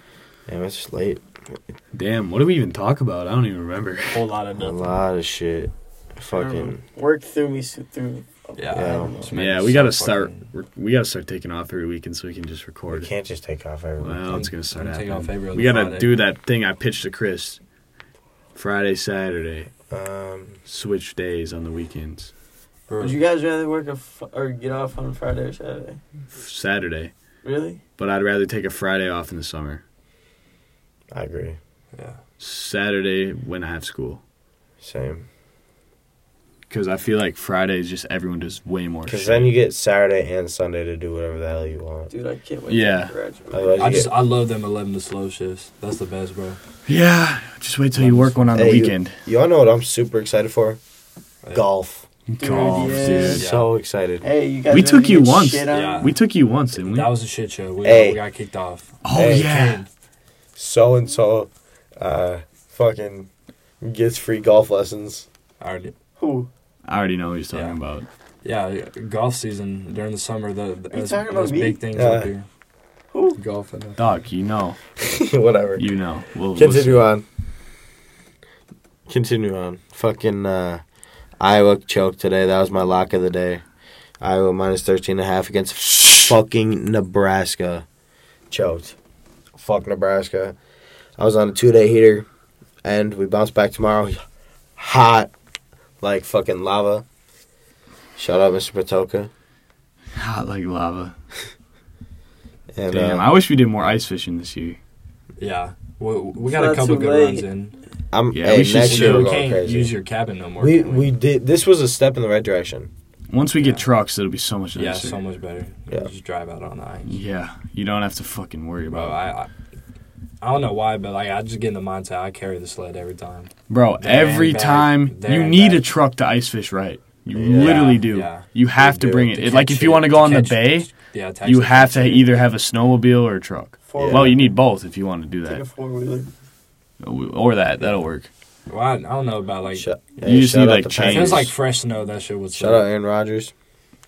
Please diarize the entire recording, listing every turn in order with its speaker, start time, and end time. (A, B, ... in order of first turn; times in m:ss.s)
0:00.5-0:01.5 A
0:01.9-0:04.2 B
0:04.1-0:04.8 C
0:04.6-0:06.8 A
0:06.3-0:09.4 D
0:08.6-0:10.5 C
0:08.7-0:09.1 A
0:09.3-0:13.1 B
0:12.9-0:14.4 A
0:14.0-0:17.6 B
0:14.3-0:16.1 C
0:18.6-0:19.7 B
0:19.9-0:20.6 A
0:20.7-0:22.3 B
0:22.9-0:23.2 C
0:23.0-0:26.0 D
0:26.3-0:27.1 B
0:27.4-0:27.8 D
0:28.0-0:29.8 B
0:31.1-0:31.6 A
0:31.9-0:32.2 C
0:32.4-0:34.2 B
0:34.8-0:35.2 A
0:36.7-0:39.5 B
0:39.1-0:42.1 A
0:42.1-0:44.0 D
0:42.7-0:43.1 B
0:43.5-0:44.1 A
0:43.8-0:46.6 C
0:46.9-0:49.2 B
0:47.9-0:48.6 C
0:48.5-0:50.8 A
0:51.5-0:52.1 A
0:52.3-0:53.4 B
0:52.4-0:53.4 D
0:52.6-0:53.7 C
0:53.2-0:54.2 A
0:54.2-0:56.1 D
0:54.7-0:57.1 B
0:55.7-0:56.2 C
0:56.7-0:59.9 C
0:57.8-0:58.2 A
0:59.0-0:59.8 B
0:59.1-0:59.5 A
1:00.6-1:03.3 A
1:03.8-1:05.3 A
1:05.6-1:05.9 C
1:06.2-1:06.5 D
1:06.8-1:08.1 B
1:07.5-1:07.8 C
1:08.4-1:12.5 C
1:10.9-1:11.8 D
1:11.9-1:12.3 A
1:13.1-1:13.4 D
1:13.4-1:14.0 C
1:14.0-1:14.8 B
1:15.0-1:15.8 A
1:15.8-1:17.0 B
1:16.6-1:17.2 A
1:19.1-1:20.8 A
1:21.4-1:23.6 A
1:24.2-1:27.9 A
1:26.0-1:26.3 B
1:28.5-1:29.0 A
1:29.6-1:30.6 A
1:31.2-1:32.3 A
1:32.8-1:34.2 A
1:34.8-1:35.3 A
1:36.0-1:37.0 A
1:38.2-1:39.3 A
1:40.2-1:41.2 B
1:42.8-1:43.3 A
1:42.9-1:44.8 B
1:45.4-1:47.8 C
1:46.4-1:47.5 D
1:48.1-1:50.0 A
1:48.3-1:49.3 B
1:48.8-1:51.1 C
1:50.6-1:52.9 A
1:53.3-1:55.2 B
1:53.6-1:53.8 C
1:54.8-1:57.2 C
1:57.1-1:59.2 B
1:58.9-1:59.5 C
2:00.4-2:05.8 C
2:03.7-2:15.6 B
2:07.3-2:08.0 A
2:07.6-2:08.5 C
2:08.8-2:09.6 A
2:09.4-2:12.3 C
2:13.9-2:14.5 D
2:14.0-2:14.4 A
2:15.4-2:16.3 D
2:17.0-2:18.3 B
2:18.7-2:19.9 C
2:19.7-2:21.5 A
2:20.2-2:21.5 B
2:21.1-2:22.9 C
2:22.5-2:23.5 A